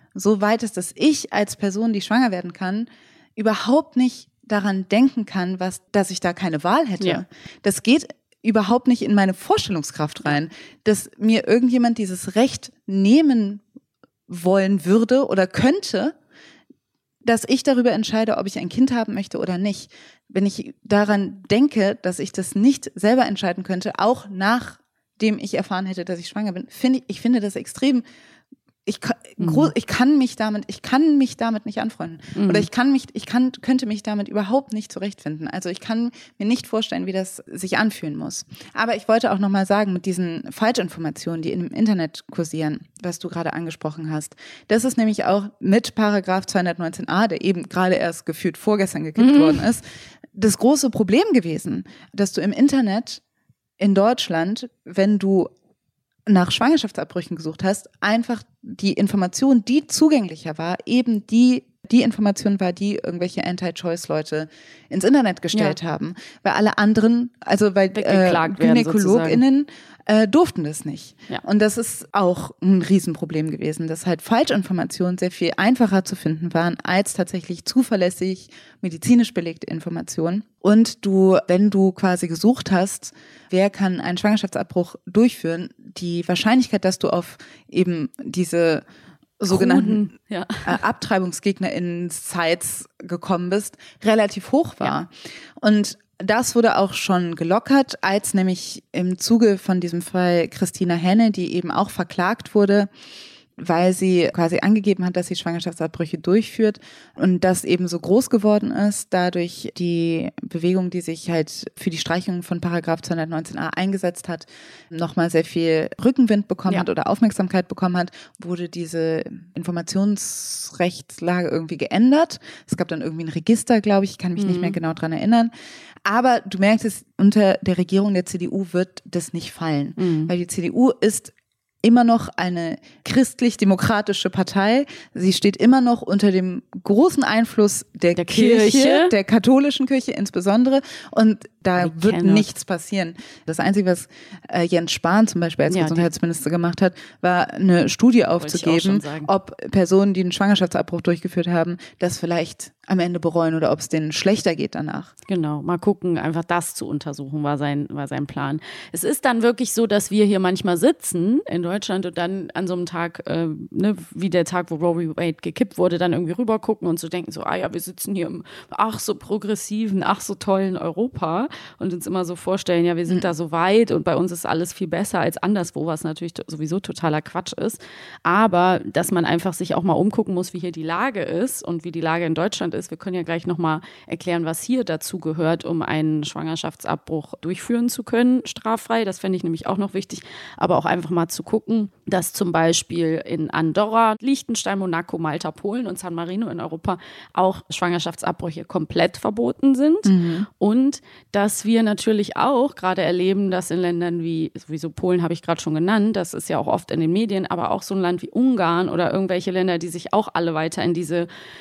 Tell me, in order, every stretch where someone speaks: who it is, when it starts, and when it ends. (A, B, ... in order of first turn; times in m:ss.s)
0:00.1-0:13.6 A
0:14.3-0:16.1 A
0:17.2-0:28.0 A
0:28.8-0:53.2 A
0:29.4-0:29.7 B
0:32.3-0:32.7 B
0:49.2-0:49.6 B
0:53.8-0:55.5 A
0:56.3-1:28.8 A
1:07.9-1:09.4 B
1:29.4-1:30.0 A
1:29.5-1:30.8 B
1:30.6-1:42.9 A
1:43.6-2:05.5 A
2:04.4-2:04.8 B
2:06.0-2:35.1 A
2:10.0-2:10.3 B
2:18.2-2:19.1 B
2:21.8-2:22.5 B
2:25.7-2:26.1 B
2:28.4-2:29.3 B
2:35.3-3:31.3 B
3:20.0-3:20.5 A